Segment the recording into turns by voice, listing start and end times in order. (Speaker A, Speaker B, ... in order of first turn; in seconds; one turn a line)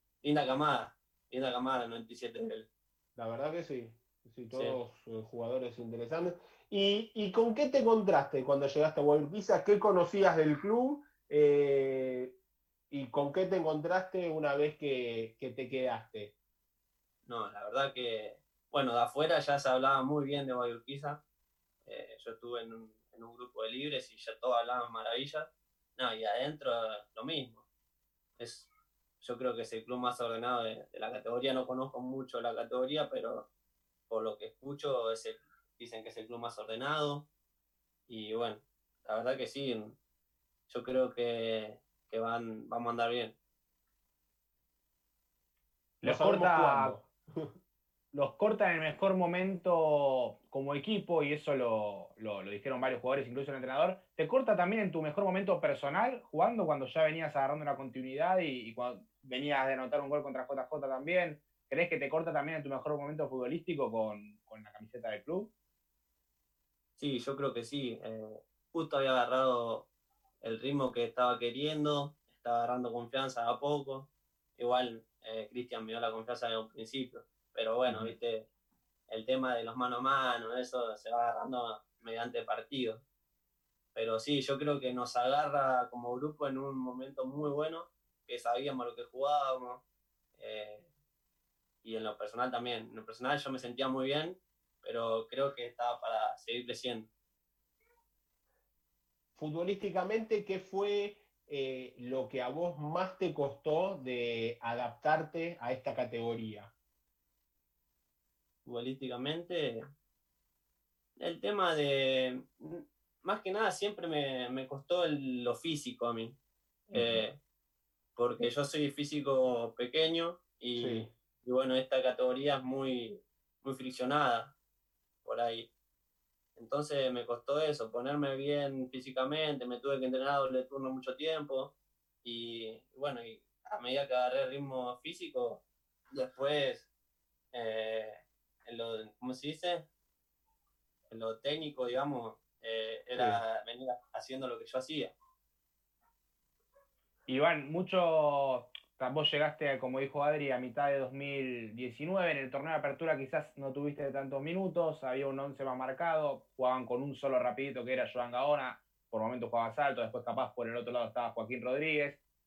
Speaker A: 0.2-2.7
Speaker B: 3.2-12.4
Speaker B: 12.9-16.3
Speaker A: 17.3-21.2
Speaker A: 21.9-27.6
Speaker A: 28.4-28.7
Speaker A: 29.2-33.5
Speaker A: 34.1-37.3
Speaker A: 38.1-40.0
Speaker A: 40.7-43.4
Speaker C: 46.0-47.0
Speaker B: 46.0-47.5
Speaker C: 48.1-65.5
Speaker A: 67.0-69.9
Speaker A: 70.4-78.5
Speaker C: 77.9-78.1
Speaker A: 79.1-83.0
Speaker A: 84.0-89.8
Speaker A: 90.4-90.9
Speaker A: 91.8-97.1
Speaker B: 99.4-106.7
Speaker A: 108.7-109.8
Speaker A: 111.2-116.4
Speaker A: 116.9-117.4
Speaker C: 116.9-117.2
Speaker A: 118.2-124.5
Speaker B: 120.8-121.1
Speaker A: 125.2-125.7
Speaker A: 126.6-131.7
Speaker A: 132.2-136.9
Speaker A: 137.5-139.9
Speaker A: 141.1-145.2
Speaker B: 143.2-143.4
Speaker C: 147.3-162.2